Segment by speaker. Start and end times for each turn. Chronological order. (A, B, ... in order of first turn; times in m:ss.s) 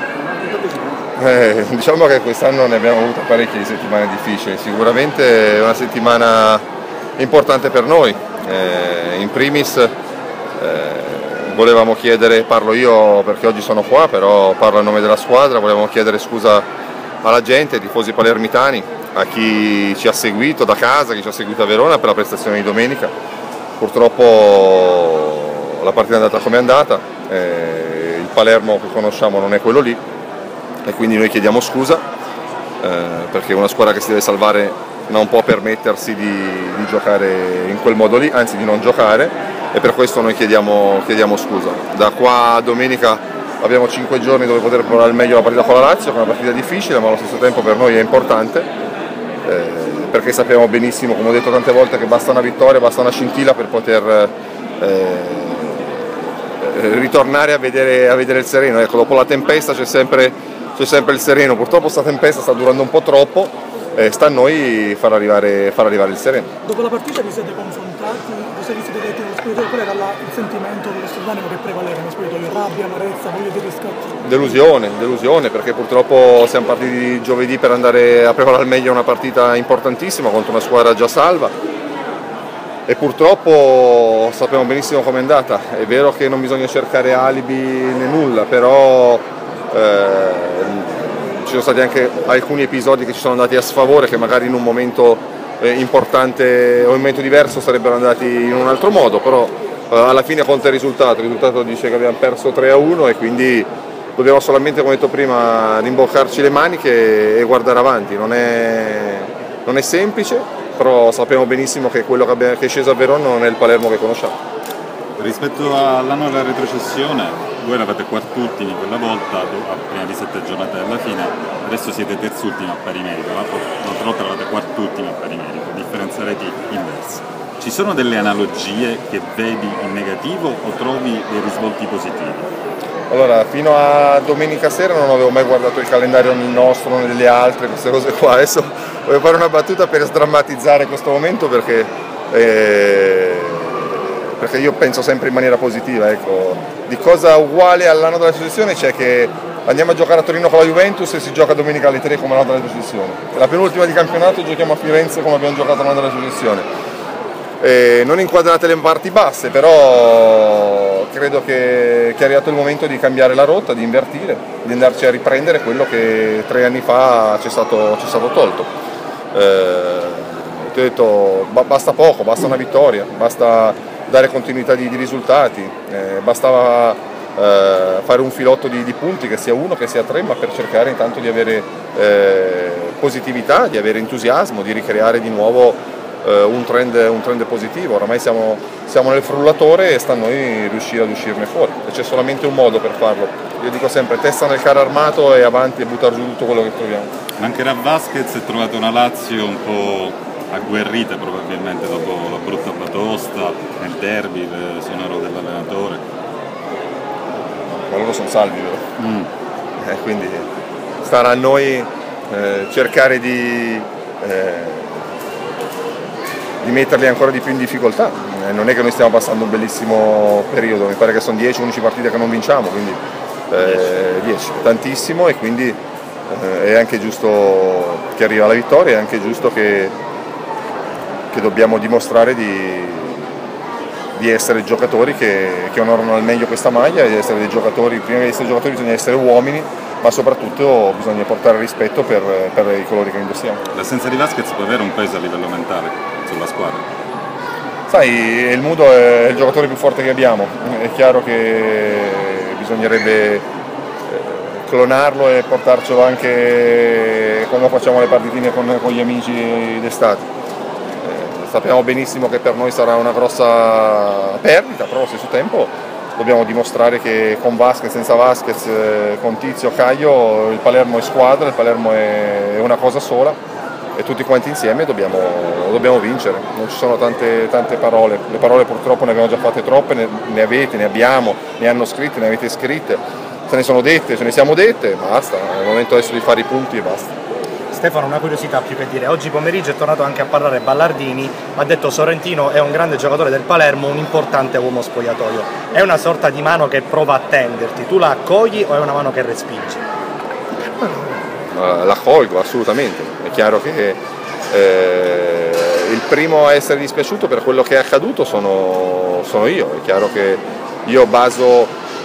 0:01.2-0:06.6 A
0:07.2-0:09.9 A
0:10.6-0:16.7 A
0:17.2-0:23.1 A
0:23.8-0:30.0 A
0:30.8-0:32.0 A
0:32.8-0:48.7 A
0:49.4-1:06.5 A
1:06.7-1:14.1 B
1:14.2-1:21.5 A
1:22.9-1:54.4 A
1:55.2-2:12.5 C
2:13.1-2:36.7 A
2:37.6-2:48.7 A
2:49.3-3:17.1 A
3:17.4-3:26.0 C
3:27.9-3:28.8 A
3:29.0-3:29.3 C
3:29.8-3:30.5 A
3:31.0-3:35.0 A
3:36.6-3:43.0 A
3:43.5-3:45.8 A
3:46.3-3:50.0 A
3:51.3-3:53.3 A
3:54.2-4:03.6 A
4:03.7-4:06.8 C
4:07.9-4:13.4 A
4:14.1-4:20.2 A
4:21.0-4:33.4 A
4:34.0-4:47.1 A
4:47.7-4:59.8 D
5:00.8-5:11.7 A